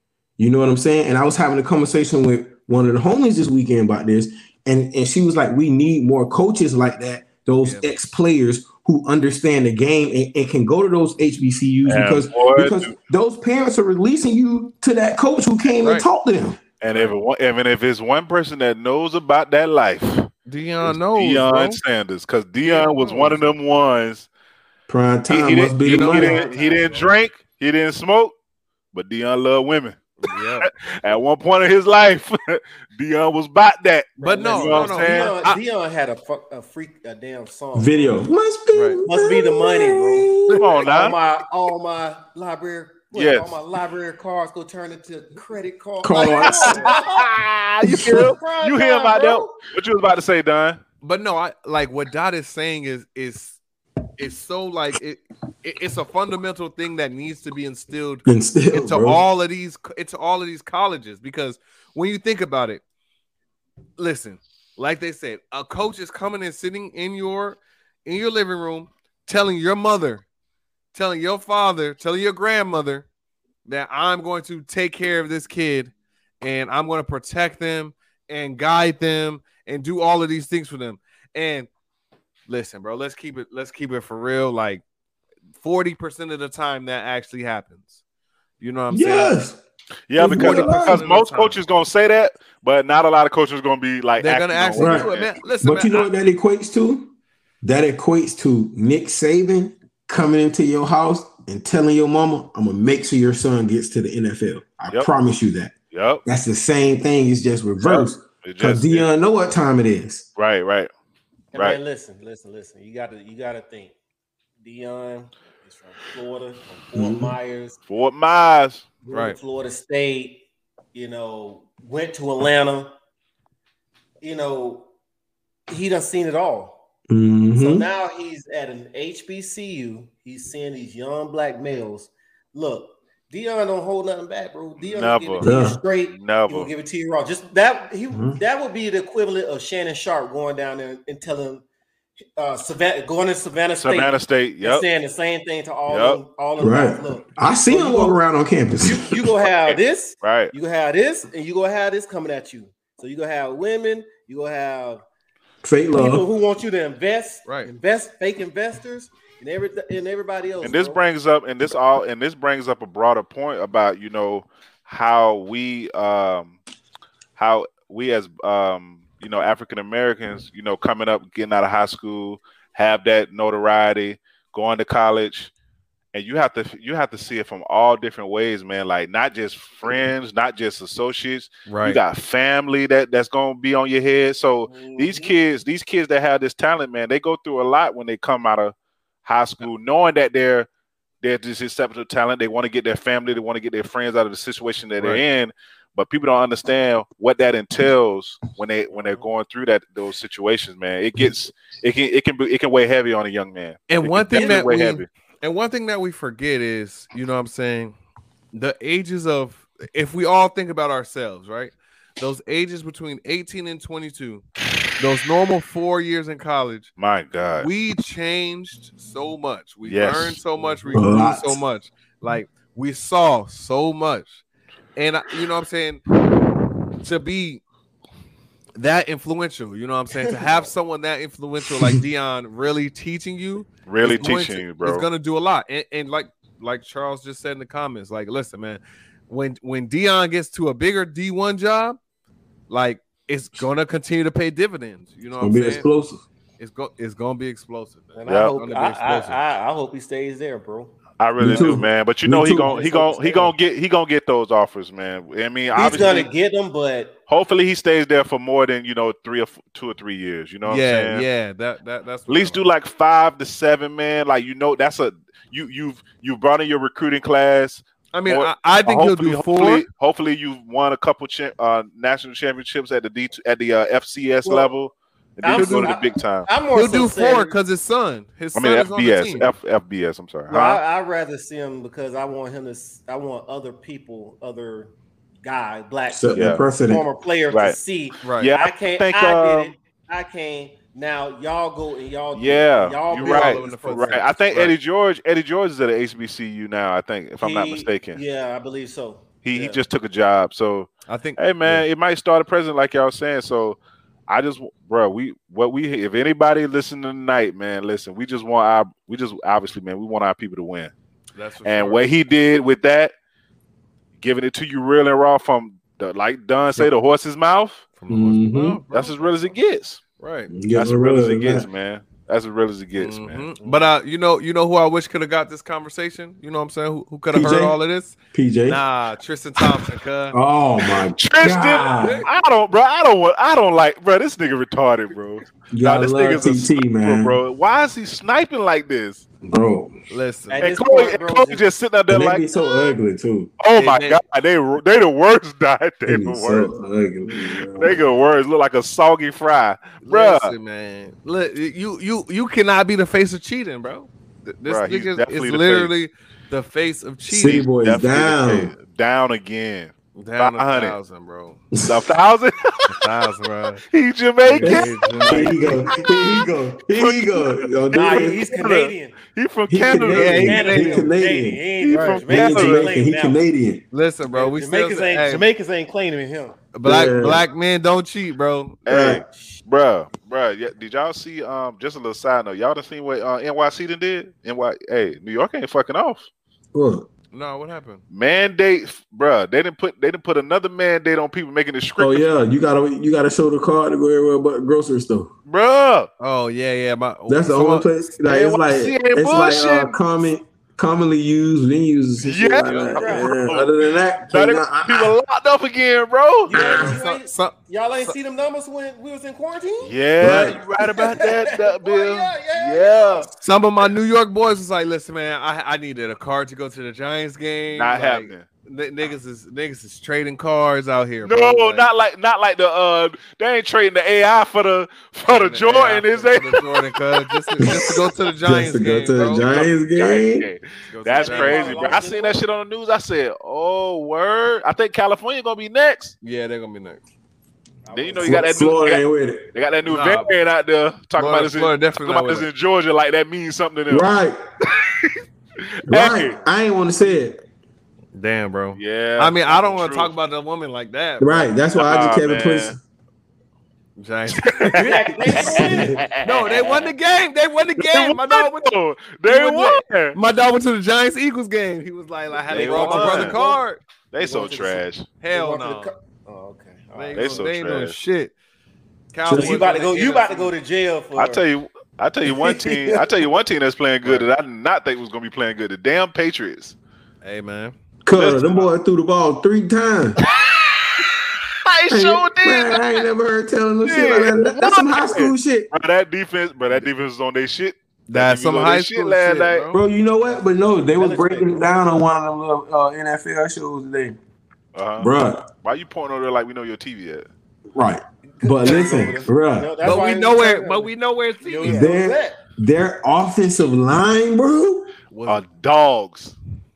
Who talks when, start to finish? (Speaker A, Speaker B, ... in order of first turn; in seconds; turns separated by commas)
Speaker A: 0.4-16.6, Speaker B: 11.8-12.9, Speaker C: 15.8-16.1, Speaker B: 16.8-20.3, Speaker C: 20.5-21.8, Speaker B: 20.8-24.3, Speaker C: 22.6-23.5, Speaker A: 24.9-26.5, Speaker B: 25.3-28.3, Speaker C: 25.8-26.4, Speaker D: 26.1-27.1, Speaker B: 28.9-30.0, Speaker C: 30.2-30.7, Speaker B: 30.6-35.4, Speaker D: 34.2-38.2, Speaker C: 34.2-35.6, Speaker A: 37.7-40.7, Speaker C: 38.7-39.0, Speaker D: 39.0-49.5, Speaker B: 40.5-41.2, Speaker B: 43.1-43.5, Speaker A: 46.0-46.9, Speaker B: 46.3-50.8, Speaker A: 47.8-48.2, Speaker C: 51.0-53.6, Speaker C: 54.2-62.8, Speaker A: 58.2-59.2, Speaker C: 64.0-70.2, Speaker C: 70.9-73.1, Speaker C: 73.7-81.7, Speaker C: 82.5-84.8, Speaker C: 85.6-88.0, Speaker C: 88.6-89.4, Speaker A: 88.9-89.6, Speaker B: 90.1-95.4, Speaker A: 90.2-91.0, Speaker C: 90.3-91.6, Speaker C: 94.2-96.1, Speaker A: 94.8-95.1, Speaker A: 95.6-105.7, Speaker B: 105.9-106.2, Speaker A: 106.2-110.3, Speaker B: 107.8-109.1, Speaker B: 110.3-110.9, Speaker D: 111.5-113.9, Speaker D: 114.6-117.8, Speaker A: 117.0-117.3, Speaker B: 117.9-118.8, Speaker D: 119.0-120.4, Speaker C: 119.1-119.4, Speaker D: 120.9-122.9, Speaker D: 124.2-124.9, Speaker D: 125.7-126.8, Speaker A: 127.1-127.9, Speaker D: 127.5-141.6, Speaker B: 134.8-135.5, Speaker A: 135.4-135.8, Speaker B: 136.1-136.7, Speaker A: 138.1-138.4, Speaker D: 142.4-148.2, Speaker B: 143.8-144.8, Speaker B: 145.9-146.2, Speaker A: 146.6-149.3, Speaker D: 148.8-155.0, Speaker B: 149.7-150.5, Speaker A: 155.6-156.2, Speaker D: 155.9-161.0, Speaker C: 157.4-157.7, Speaker B: 160.6-166.6, Speaker B: 167.4-175.5, Speaker B: 176.1-190.7, Speaker C: 181.7-182.0, Speaker D: 184.7-185.3, Speaker B: 191.2-205.1, Speaker C: 195.0-195.2, Speaker C: 203.9-207.9, Speaker D: 204.3-204.7, Speaker C: 208.5-214.4, Speaker C: 215.0-216.9, Speaker B: 217.0-217.7, Speaker C: 217.6-224.4, Speaker B: 219.8-220.4, Speaker A: 220.9-221.6, Speaker C: 224.9-226.0, Speaker C: 227.0-227.6, Speaker C: 228.8-242.0, Speaker D: 230.2-230.5, Speaker B: 233.9-235.0, Speaker C: 242.7-245.8, Speaker A: 245.4-246.2, Speaker C: 246.6-249.4, Speaker D: 248.2-250.9, Speaker B: 248.3-248.6, Speaker B: 251.2-256.3, Speaker A: 251.4-252.7, Speaker D: 251.5-251.8, Speaker D: 252.5-253.5, Speaker D: 255.7-257.1, Speaker B: 257.3-261.3, Speaker C: 260.6-262.7, Speaker B: 262.3-276.5, Speaker C: 268.1-269.8, Speaker D: 274.4-274.7, Speaker D: 275.4-277.6, Speaker C: 276.7-279.5, Speaker B: 278.5-280.8, Speaker D: 280.5-293.8, Speaker A: 286.1-287.0, Speaker B: 286.3-286.6, Speaker B: 287.5-287.8, Speaker C: 288.2-288.5, Speaker B: 288.3-289.7, Speaker B: 292.3-298.2, Speaker C: 293.1-294.7, Speaker D: 297.4-299.8, Speaker B: 299.4-310.9, Speaker C: 301.1-301.8, Speaker C: 311.3-312.1, Speaker B: 311.6-313.1, Speaker B: 314.2-317.9, Speaker C: 318.0-319.5, Speaker A: 318.1-318.8, Speaker B: 318.9-320.0, Speaker C: 320.2-320.5, Speaker A: 320.5-321.7, Speaker B: 320.7-323.5, Speaker C: 323.0-330.4, Speaker A: 327.3-327.8, Speaker A: 328.3-328.8, Speaker A: 330.3-332.2, Speaker B: 331.2-339.2, Speaker C: 332.0-332.3, Speaker A: 335.7-337.4, Speaker A: 339.5-339.9, Speaker C: 340.1-340.8, Speaker D: 340.5-341.6, Speaker B: 340.6-342.4, Speaker A: 342.1-343.5, Speaker D: 342.5-342.9, Speaker B: 343.6-346.7, Speaker C: 343.7-344.2, Speaker A: 346.1-348.0, Speaker B: 347.8-350.5, Speaker C: 350.0-357.6, Speaker B: 354.6-355.9, Speaker A: 357.3-358.7, Speaker B: 357.4-360.9, Speaker C: 360.1-361.6, Speaker A: 361.7-362.1, Speaker B: 361.8-362.9, Speaker C: 362.9-363.8, Speaker B: 363.9-365.9, Speaker C: 364.4-365.7, Speaker A: 364.6-368.4, Speaker B: 366.9-370.6, Speaker D: 367.9-369.2, Speaker A: 369.7-371.6, Speaker C: 370.1-371.1, Speaker D: 370.2-373.4, Speaker B: 371.8-373.0, Speaker A: 372.2-373.8, Speaker C: 373.9-375.4, Speaker D: 374.3-376.6, Speaker C: 376.7-378.8, Speaker A: 376.8-377.4, Speaker B: 378.8-386.3, Speaker A: 378.9-379.2, Speaker D: 379.0-379.6, Speaker A: 386.7-387.1, Speaker C: 387.3-388.0, Speaker B: 388.1-392.2, Speaker A: 392.0-395.3, Speaker B: 395.5-396.1, Speaker C: 396.2-397.9, Speaker A: 397.3-405.1, Speaker B: 398.3-400.0, Speaker B: 402.2-406.9, Speaker D: 402.9-403.3, Speaker D: 406.4-413.3, Speaker C: 406.5-407.5, Speaker B: 409.8-413.3, Speaker A: 410.2-410.6, Speaker C: 413.4-421.9, Speaker B: 417.7-418.4, Speaker B: 421.2-426.8, Speaker C: 425.3-429.7, Speaker B: 427.3-427.7, Speaker A: 427.6-427.9, Speaker A: 428.4-430.5, Speaker B: 429.5-436.1, Speaker C: 430.9-432.0, Speaker D: 431.2-432.4, Speaker C: 436.2-437.0, Speaker D: 437.8-438.6, Speaker B: 437.9-444.1, Speaker A: 438.2-439.5, Speaker C: 439.9-440.3, Speaker C: 441.2-442.5, Speaker A: 443.9-444.4, Speaker B: 444.7-445.1, Speaker B: 445.9-446.3, Speaker A: 445.9-447.4, Speaker C: 448.1-451.5, Speaker B: 448.8-450.1, Speaker A: 451.2-452.8, Speaker B: 451.7-452.8, Speaker C: 454.0-458.7, Speaker B: 454.3-456.9, Speaker D: 454.8-456.1, Speaker A: 455.6-456.0, Speaker B: 457.8-460.2, Speaker C: 459.2-463.8, Speaker D: 462.5-463.6, Speaker B: 462.5-463.4, Speaker B: 464.1-465.1, Speaker D: 464.2-467.5, Speaker C: 465.2-465.9, Speaker C: 466.9-468.3, Speaker B: 467.1-468.0, Speaker C: 469.1-470.5, Speaker A: 469.2-469.6, Speaker D: 469.3-471.4, Speaker B: 471.1-476.8, Speaker D: 472.2-473.2, Speaker C: 474.0-474.3, Speaker C: 477.2-477.7, Speaker A: 478.0-480.2, Speaker B: 478.1-478.7, Speaker B: 480.2-483.0, Speaker A: 481.9-485.7, Speaker B: 483.8-489.7, Speaker C: 488.1-489.8, Speaker A: 489.7-494.2, Speaker D: 490.3-491.6, Speaker B: 494.7-497.3, Speaker A: 495.0-495.4, Speaker A: 497.7-499.7, Speaker D: 498.4-502.4, Speaker B: 498.6-499.2, Speaker C: 499.8-501.9, Speaker A: 501.6-504.9, Speaker C: 505.1-505.4, Speaker B: 505.2-506.3